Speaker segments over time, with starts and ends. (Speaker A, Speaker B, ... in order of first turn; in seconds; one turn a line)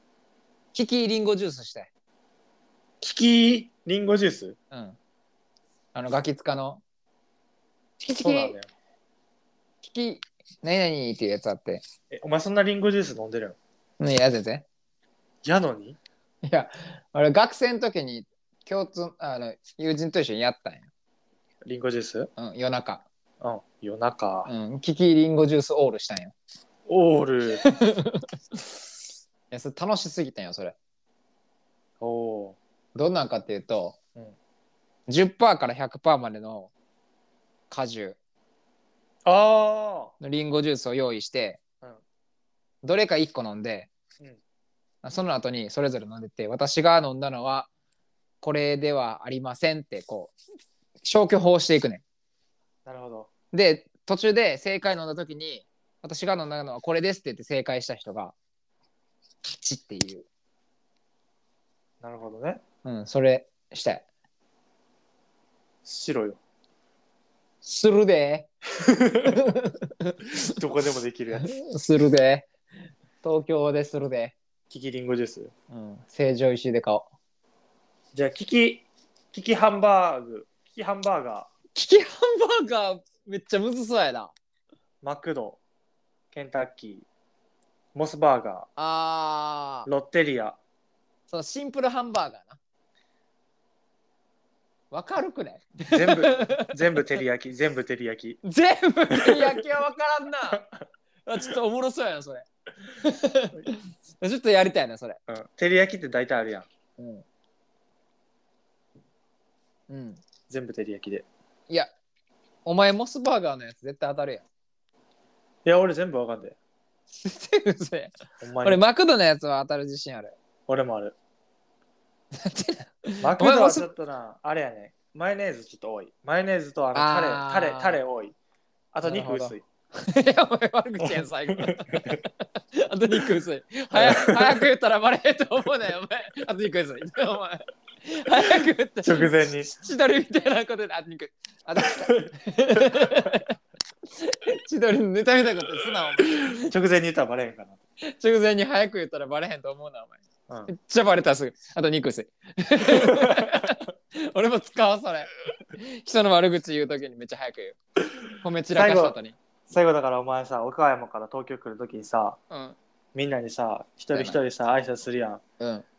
Speaker A: 0.7-1.9
Speaker B: 3.0-4.5
Speaker A: 4.7-5.0
Speaker A: 5.9-6.8
Speaker A: 8.0-8.6
Speaker B: 8.2-8.7
Speaker A: 9.8-11.8
Speaker B: 12.1-13.6
Speaker A: 14.0-14.6
Speaker B: 15.4-16.0
Speaker A: 16.4-20.9
Speaker B: 21.6-22.3
Speaker A: 22.4-23.0
Speaker B: 23.4-24.5
Speaker A: 24.4-26.3
Speaker B: 26.9-27.6
Speaker A: 27.6-28.6
Speaker A: 29.5-30.8
Speaker B: 32.0-32.6
Speaker A: 32.9-34.0
Speaker A: 35.1-36.7
Speaker A: 37.7-38.2
Speaker B: 39.2-40.1
Speaker A: 40.2-41.6
Speaker A: 42.8-43.9
Speaker A: 45.0-47.7
Speaker A: 48.4-50.4
Speaker A: 51.0-52.0
Speaker B: 52.9-53.3
Speaker A: 53.5-58.3
Speaker A: 59.5-60.3
Speaker B: 62.0-62.6
Speaker A: 62.8-64.0
Speaker B: 65.8-66.4
Speaker A: 67.6-68.5
Speaker B: 68.8-69.3
Speaker A: 69.2-70.4
Speaker B: 70.4-71.5
Speaker A: 71.3-72.5
Speaker A: 73.2-74.3
Speaker B: 74.7-75.5
Speaker A: 75.7-77.1
Speaker B: 78.1-81.5
Speaker A: 81.7-84.3
Speaker B: 85.0-85.6
Speaker B: 86.3-87.0
Speaker B: 87.9-88.7
Speaker A: 88.8-89.9
Speaker B: 89.9-90.6
Speaker A: 91.3-92.6
Speaker A: 94.9-97.0
Speaker B: 95.9-98.4
Speaker A: 98.4-100.6
Speaker B: 99.1-99.7
Speaker A: 101.2-102.5
Speaker A: 103.0-105.2
Speaker B: 105.3-106.7
Speaker A: 107.0-107.2
Speaker A: 109.9-110.2
Speaker B: 110.5-111.2
Speaker A: 112.6-114.5
Speaker B: 115.6-116.6
Speaker A: 117.2-120.3
Speaker B: 118.4-118.8
Speaker B: 120.7-121.2
Speaker A: 122.4-123.9
Speaker B: 123.2-128.3
Speaker A: 126.9-128.0
Speaker B: 128.9-129.6
Speaker A: 129.0-143.5
Speaker B: 131.0-132.2
Speaker B: 133.9-134.7
Speaker B: 139.0-139.7
Speaker A: 144.2-146.7
Speaker B: 146.3-147.8
Speaker A: 148.1-157.8
Speaker A: 158.4-159.4
Speaker B: 158.7-159.2
Speaker B: 159.7-162.4
Speaker A: 162.5-162.8
Speaker B: 163.1-165.4
Speaker A: 164.1-164.4
Speaker A: 165.6-165.8